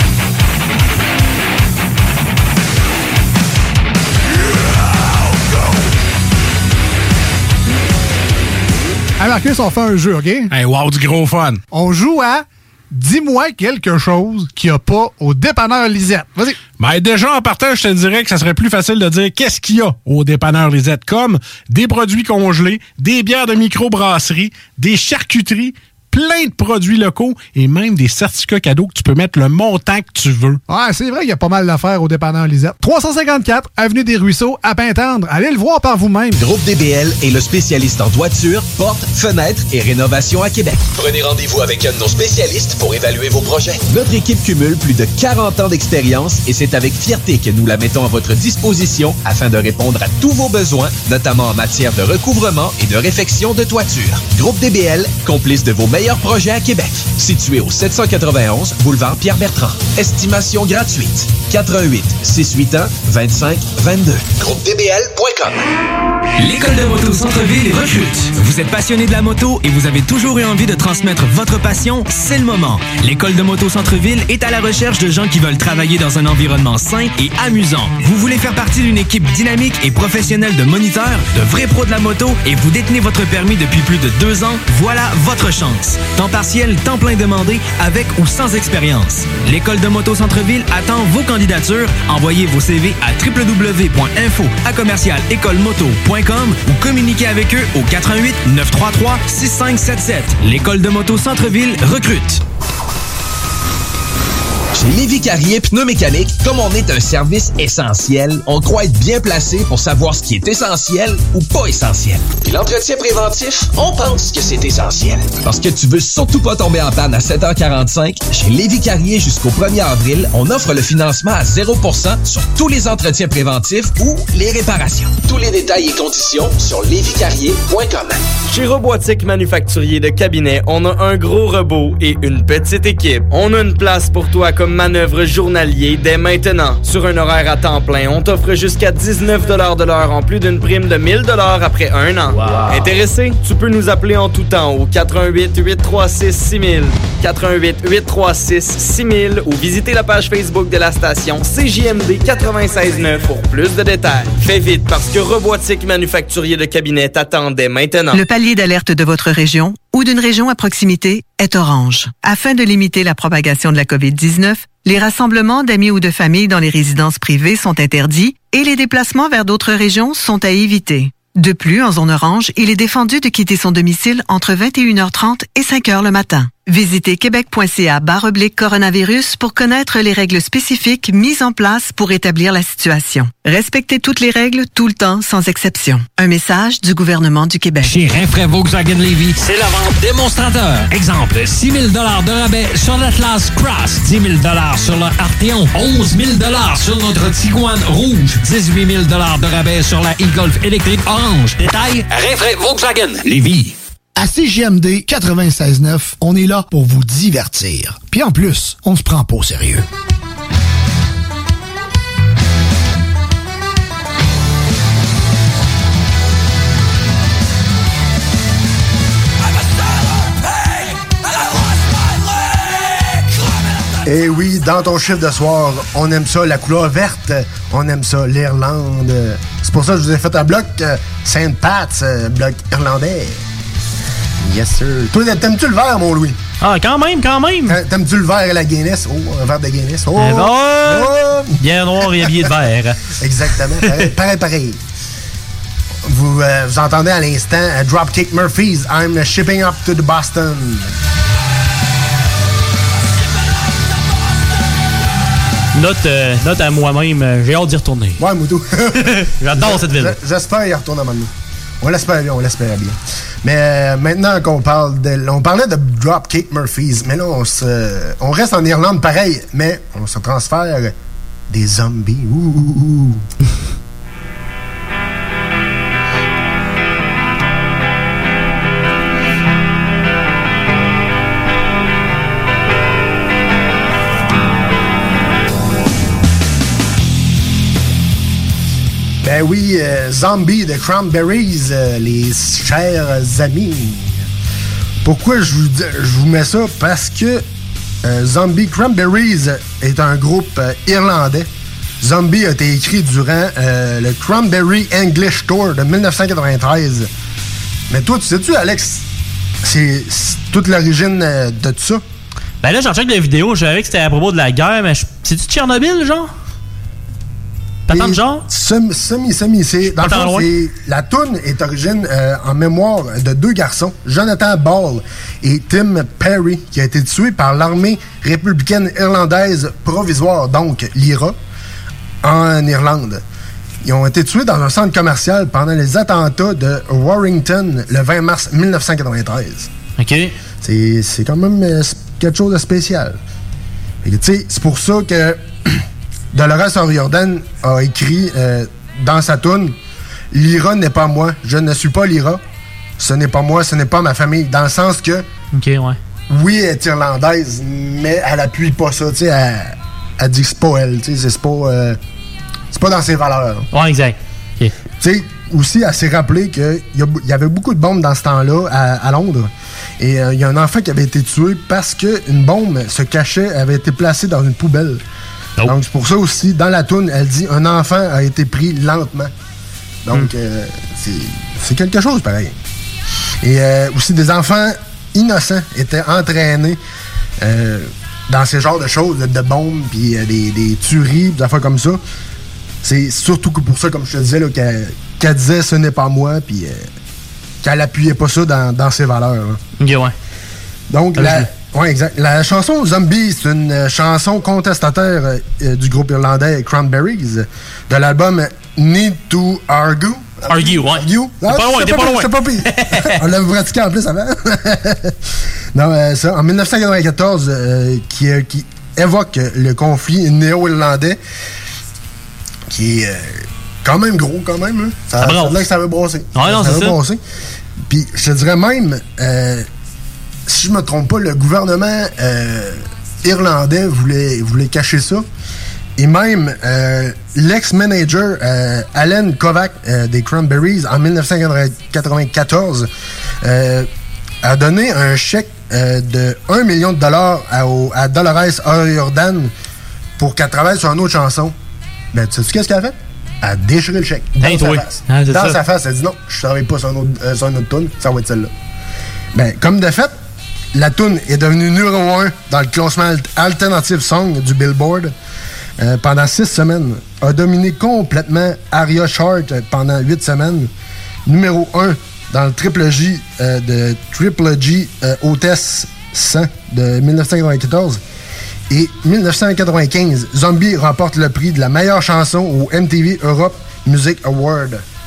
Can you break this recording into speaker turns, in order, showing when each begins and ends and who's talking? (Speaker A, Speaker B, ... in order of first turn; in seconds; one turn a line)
Speaker A: 9.2-10.5
Speaker B: 10.5-11.6
Speaker A: 11.7-16.6
Speaker B: 16.8-30.6
Speaker A: 30.7-36.3
Speaker C: 36.4-65.6
Speaker D: 66.4-102.4
Speaker C: 104.7-128.2
Speaker E: 128.5-158.2
Speaker F: 158.1-187.9
Speaker G: 187.8-203.7
Speaker H: 204.1-209.8
Speaker I: 224.0-233.4
Speaker I: 234.4-236.4
Speaker J: 236.6-237.8
Speaker I: 237.7-242.5
Speaker J: 240.2-243.0
Speaker I: 243.2-244.8
Speaker I: 246.0-250.9
Speaker J: 255.7-258.2
Speaker I: 258.2-270.9
Speaker J: 259.1-260.1
Speaker I: 271.5-273.2
Speaker I: 289.2-294.2
Speaker I: 295.0-297.4
Speaker I: 298.0-301.5
Speaker I: 302.0-307.1
Speaker I: 307.9-309.0
Speaker I: 309.6-312.0
Speaker J: 312.6-316.3
Speaker J: 317.9-318.4
Speaker I: 317.9-331.4
Speaker J: 319.9-320.5
Speaker I: 332.2-333.2
Speaker I: 333.8-339.7
Speaker J: 340.0-340.3
Speaker I: 340.6-343.2
Speaker I: 344.0-345.8
Speaker I: 346.3-349.7
Speaker I: 350.3-352.4
Speaker I: 353.0-355.2
Speaker J: 355.5-356.0
Speaker I: 356.3-362.0
Speaker I: 362.7-363.7
Speaker J: 363.7-364.7
Speaker I: 365.0-375.0
Speaker I: 375.6-379.3
Speaker I: 380.0-382.5
Speaker I: 383.4-386.8
Speaker I: 387.4-392.0
Speaker I: 392.8-396.9
Speaker I: 397.6-399.6
Speaker J: 399.8-400.1
Speaker I: 400.9-415.1
Speaker J: 401.1-401.4
Speaker J: 410.5-413.2
Speaker I: 415.7-421.2
Speaker I: 422.7-427.2
Speaker J: 425.2-425.6
Speaker J: 426.3-427.0
Speaker I: 427.8-429.7
Speaker I: 430.5-435.2
Speaker I: 436.0-442.9
Speaker I: 443.4-443.9
Speaker I: 444.4-449.5
Speaker I: 450.2-451.5
Speaker I: 452.1-458.5
Speaker J: 454.4-455.6
Speaker I: 459.3-460.1
Speaker I: 460.7-465.1
Speaker I: 465.8-470.7
Speaker I: 471.2-478.0
Speaker I: 478.7-484.8